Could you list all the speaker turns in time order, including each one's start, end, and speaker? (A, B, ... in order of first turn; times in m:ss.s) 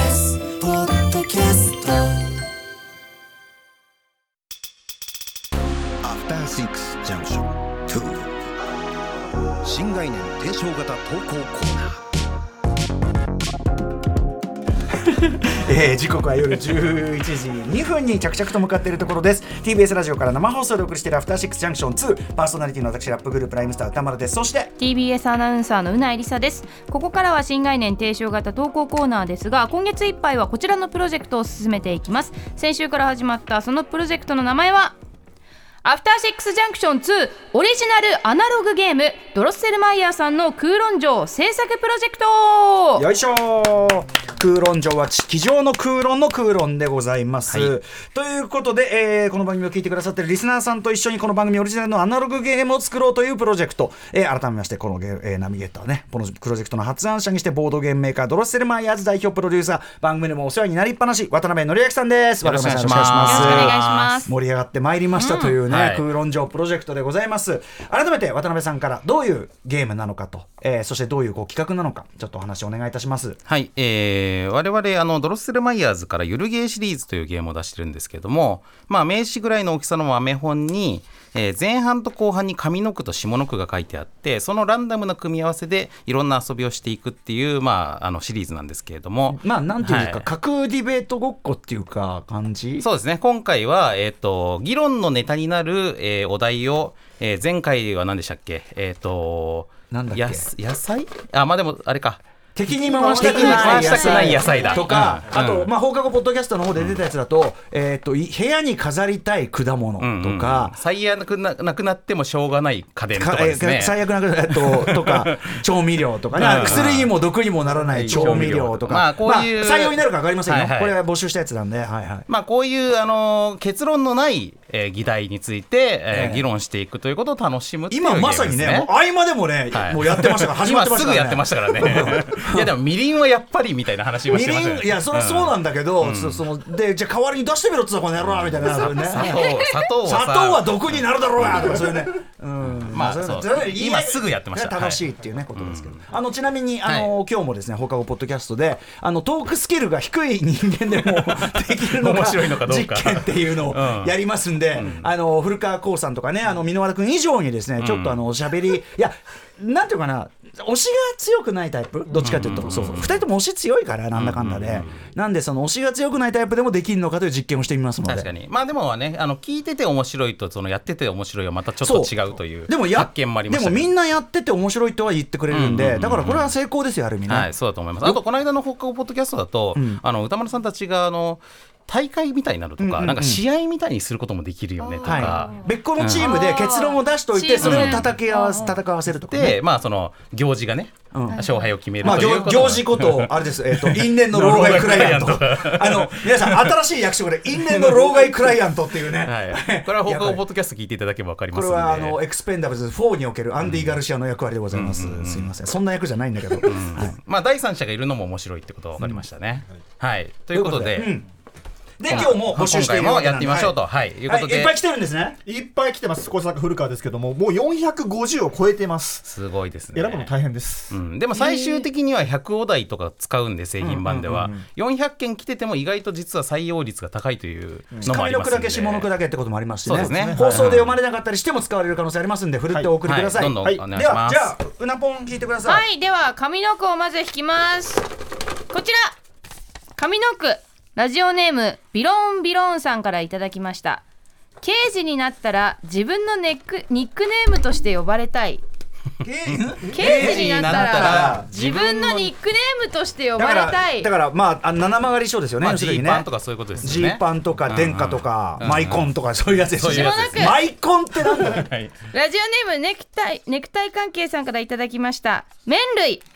0:00.3-0:02.0 A
0:06.0-0:08.3 A
0:09.6-0:11.9 A
0:15.4-0:24.7 B
0:24.8-0:35.0 C
0:35.8-0:43.0 C
0:43.0-1:13.4 B
0:47.5-0:47.8 D
1:02.4-1:04.1 D
1:03.2-1:04.3 C
1:05.2-1:05.6 C
1:05.7-1:06.1 D
1:13.5-1:30.3 D
1:29.3-1:32.9 B
1:32.8-1:42.2 D
1:39.9-1:40.5 B
1:42.6-1:50.8 B
1:42.9-1:44.9 C
1:42.9-1:45.7 D
1:44.4-1:45.2 E
1:50.0-1:55.2 D
1:53.1-2:02.3 B
1:56.4-1:57.2 D
1:56.5-1:56.8 E
1:57.9-1:58.3 E
1:57.9-2:01.0 D
2:02.3-2:08.9 D
2:06.1-2:06.4 B
2:07.9-2:12.7 B
2:09.7-2:16.4 D
2:14.2-2:48.3 B
2:18.3-2:21.8 D
2:22.6-2:25.0 D
2:25.6-2:26.1 D
2:26.8-2:27.2 D
2:31.8-2:34.2 D
2:34.7-2:35.1 D
2:37.8-2:38.2 D
2:42.2-2:43.2 D
2:44.2-2:45.0 D
2:48.1-2:53.9 D
2:51.8-2:58.2 B
2:55.5-2:56.6 D
2:57.3-3:06.4 D
2:59.7-3:00.0 B
3:02.8-3:03.4 B
3:04.8-3:08.8 C
3:05.0-3:09.6 B
3:07.6-3:08.1 D
3:09.3-3:16.8 D
3:11.1-3:11.4 B
3:11.3-3:12.3 C
3:12.0-3:20.4 B
3:17.7-3:18.5 D
3:19.2-3:22.2 D
3:21.5-3:27.2 B
3:23.6-3:24.0 D
3:24.7-3:25.6 D
3:26.6-3:31.2 D
3:29.0-3:29.2 B
3:30.5-3:31.3 B
3:32.0-3:35.4 B
3:32.1-3:34.7 D
3:35.4-3:39.4 E
3:39.2-3:40.3 D
3:39.9-3:41.0 E
3:40.9-3:49.1 D
3:41.4-3:41.8 C
3:43.8-3:44.5 B
3:44.3-3:44.6 E
3:48.0-3:55.8 B
3:49.8-3:51.0 D
3:49.9-3:50.7 E
3:53.0-3:54.5 D
3:53.6-3:53.9 E
3:55.6-3:58.1 C
3:58.7-3:59.2 C
4:00.0-4:04.0 C
4:04.6-4:08.6 C
4:09.2-4:11.5 B
4:09.5-4:12.3 D
4:09.9-4:14.1 C
4:13.4-4:21.7 B
4:15.6-4:20.5 D
4:19.9-4:20.6 C
4:21.3-4:21.9 D
4:22.1-4:26.2 C